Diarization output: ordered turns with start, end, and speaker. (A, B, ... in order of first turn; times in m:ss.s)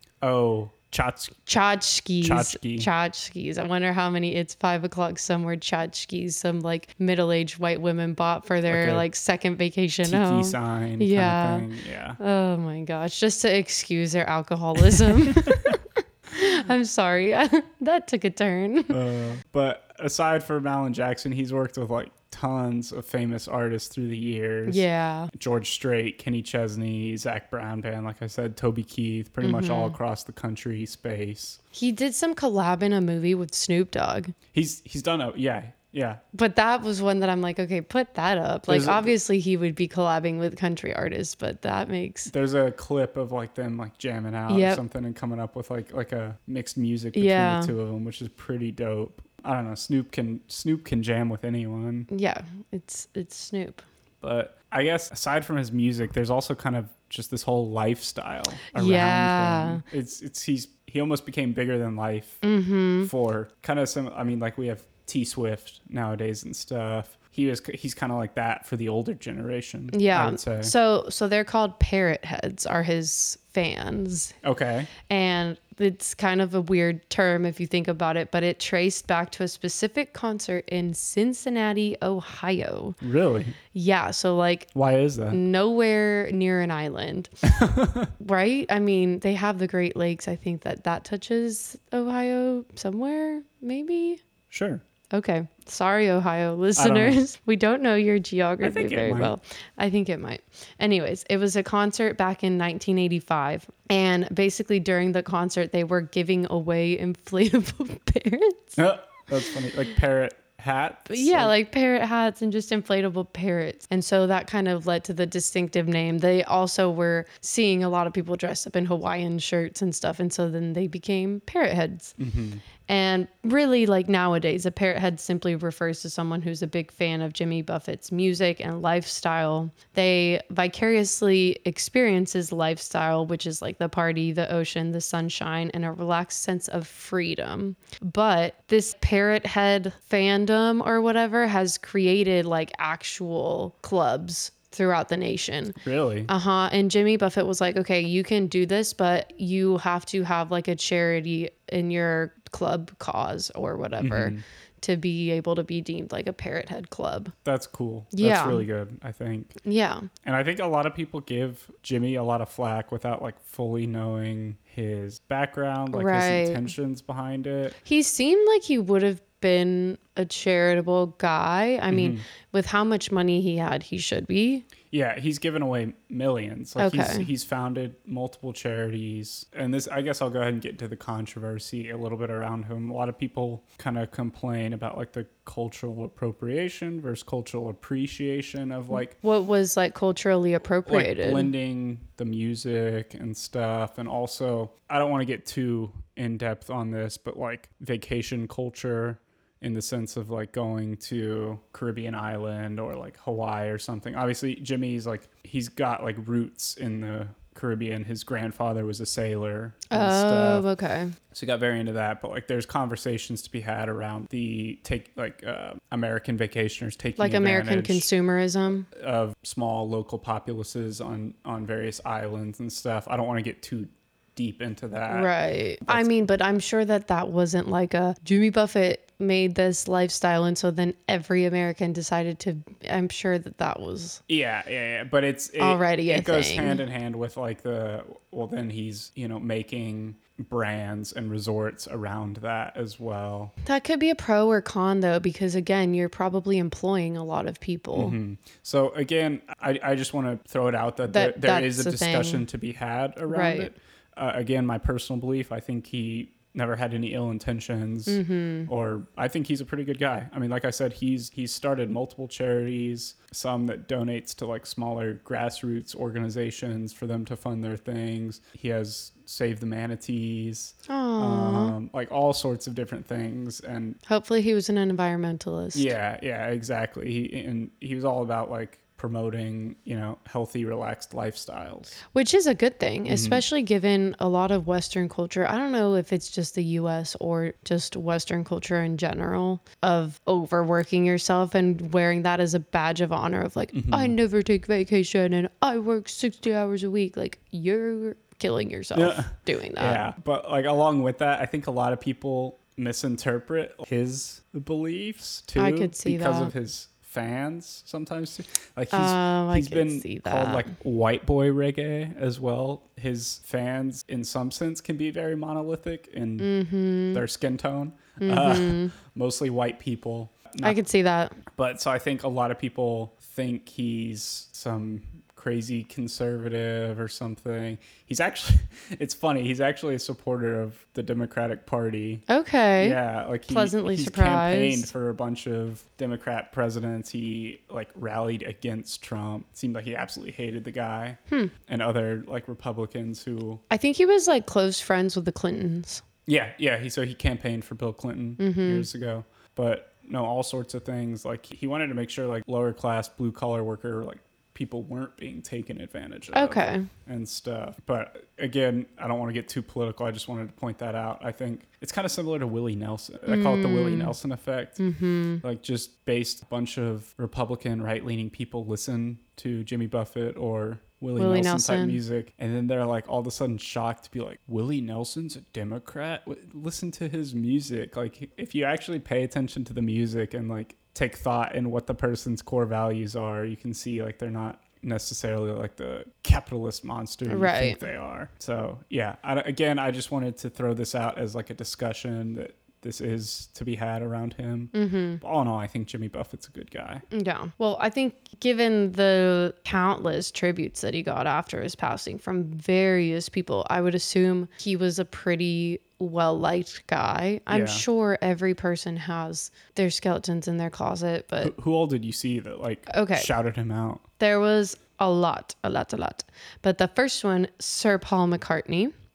0:00.2-0:01.4 A
0:01.5-0:11.7 B
0:02.2-0:02.9 A
0:08.7-0:09.1 A
0:10.0-0:12.2 A
0:12.2-0:19.0 B
0:15.0-0:15.8 A
0:18.9-0:31.6 A
0:24.7-0:25.3 B
0:29.4-0:30.0 B
0:31.7-0:34.4 B
0:34.5-0:36.2 A
0:36.3-0:42.3 B
0:38.7-0:39.2 A
0:42.3-0:52.1 A
0:44.5-0:44.8 B
0:47.1-0:47.7 B
0:52.1-0:53.8 B
0:54.2-1:02.4 A
0:58.7-0:59.8 B
1:02.4-1:03.1 B
1:03.0-1:10.7 A
1:09.9-1:14.3 B
1:14.4-1:14.9 A
1:15.1-1:23.0 B
1:23.0-1:23.6 A
1:23.7-1:24.7 B
1:24.7-1:25.4 A
1:25.3-1:27.3 B
1:27.4-1:28.1 A
1:28.2-1:34.2 B
1:34.5-1:34.8 A
1:35.1-1:48.8 B
1:36.8-1:37.2 A
1:38.6-1:39.4 A
1:48.8-1:51.5 A
1:51.1-2:02.2 B
2:02.2-2:02.6 A
2:02.8-2:25.8 B
2:25.8-2:26.3 A
2:26.3-2:37.3 B
2:34.0-2:34.4 A
2:37.4-2:39.6 A
2:38.1-2:38.6 B
2:39.6-2:40.1 B
2:40.2-2:47.8 A
2:45.9-2:46.7 B
2:47.8-2:54.7 B
2:51.9-2:52.2 A
2:54.9-3:09.2 A
2:56.8-2:57.3 B
3:09.2-3:11.5 B
3:10.9-3:30.7 A
3:29.9-3:31.2 B
3:31.3-3:38.1 A
3:37.2-3:38.9 B
3:38.9-3:45.3 A
3:45.1-3:54.2 B
3:54.3-4:03.5 A
3:55.6-3:56.8 B
4:03.6-4:08.2 B
4:07.9-4:34.0 A
4:11.1-4:12.5 B
4:13.3-4:13.7 B
4:18.1-4:18.7 B
4:30.9-4:31.8 B
4:34.1-4:35.9 B
4:35.7-4:42.0 A
4:42.1-5:00.0 B
4:43.1-4:43.4 A
4:53.7-4:54.1 A
4:58.9-5:16.5 A
5:05.6-5:06.5 B
5:08.9-5:10.7 B
5:16.4-5:17.2 B
5:17.1-5:20.8 A
5:18.2-5:18.9 B
5:20.6-5:21.4 B
5:21.5-5:32.2 A
5:32.3-5:34.9 B
5:32.8-5:43.6 A
5:43.7-5:46.0 B
5:46.3-6:04.8 A
5:48.4-5:48.9 B
5:56.3-5:56.9 B
6:03.3-6:04.2 B
6:04.8-6:05.4 B
6:05.4-6:37.0 A
6:11.2-6:12.0 B
6:27.3-6:27.8 B
6:34.7-6:35.2 B
6:37.1-6:51.5 B
6:47.5-6:47.8 A
6:51.4-6:54.0 A
6:52.9-6:53.3 B
6:54.2-6:58.9 B